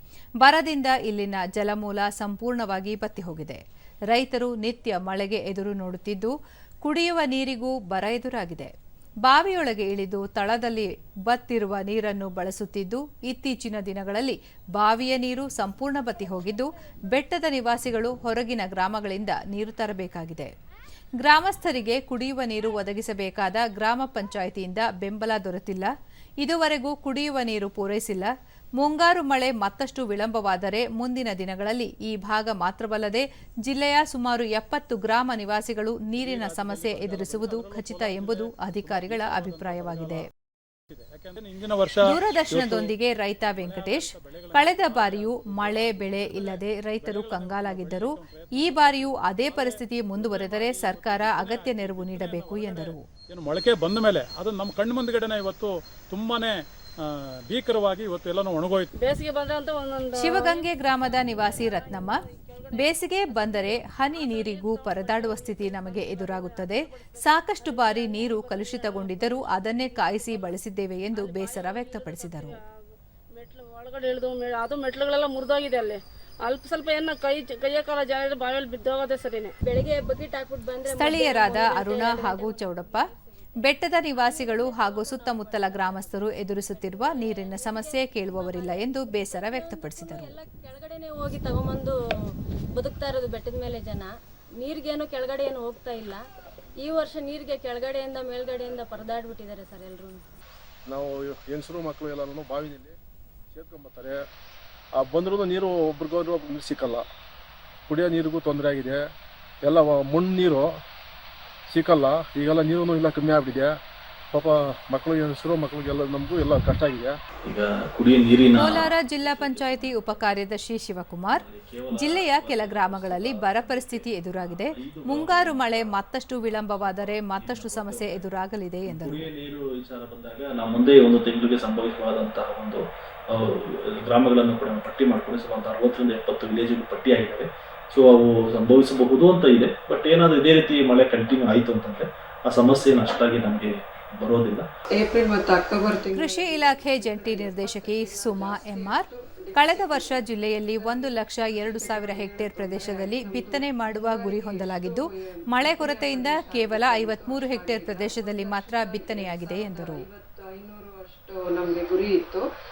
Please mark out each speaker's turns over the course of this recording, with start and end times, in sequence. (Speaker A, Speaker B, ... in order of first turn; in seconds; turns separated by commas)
Speaker A: 0.4-8.7, Speaker A: 9.2-20.5, Speaker A: 21.2-25.9, Speaker A: 26.4-40.2, Speaker B: 36.2-40.2, Speaker B: 40.9-58.9, Speaker A: 42.0-53.0, Speaker C: 58.9-60.7, Speaker A: 60.2-62.2, Speaker C: 61.2-65.2, Speaker A: 62.7-72.6, Speaker C: 66.0-70.5, Speaker C: 71.1-72.6, Speaker C: 73.3-79.5, Speaker D: 79.6-92.0, Speaker A: 80.9-83.0, Speaker A: 83.6-90.3, Speaker D: 92.8-96.2, Speaker D: 96.8-100.2, Speaker E: 100.9-102.9, Speaker E: 103.5-104.2, Speaker E: 105.0-107.0, Speaker E: 107.9-109.0, Speaker E: 109.7-110.6, Speaker E: 111.7-113.7, Speaker E: 114.3-117.1, Speaker F: 117.0-120.5, Speaker A: 118.5-129.3, Speaker F: 121.3-128.3, Speaker F: 128.8-144.7, Speaker G: 145.0-162.4, Speaker A: 146.1-160.0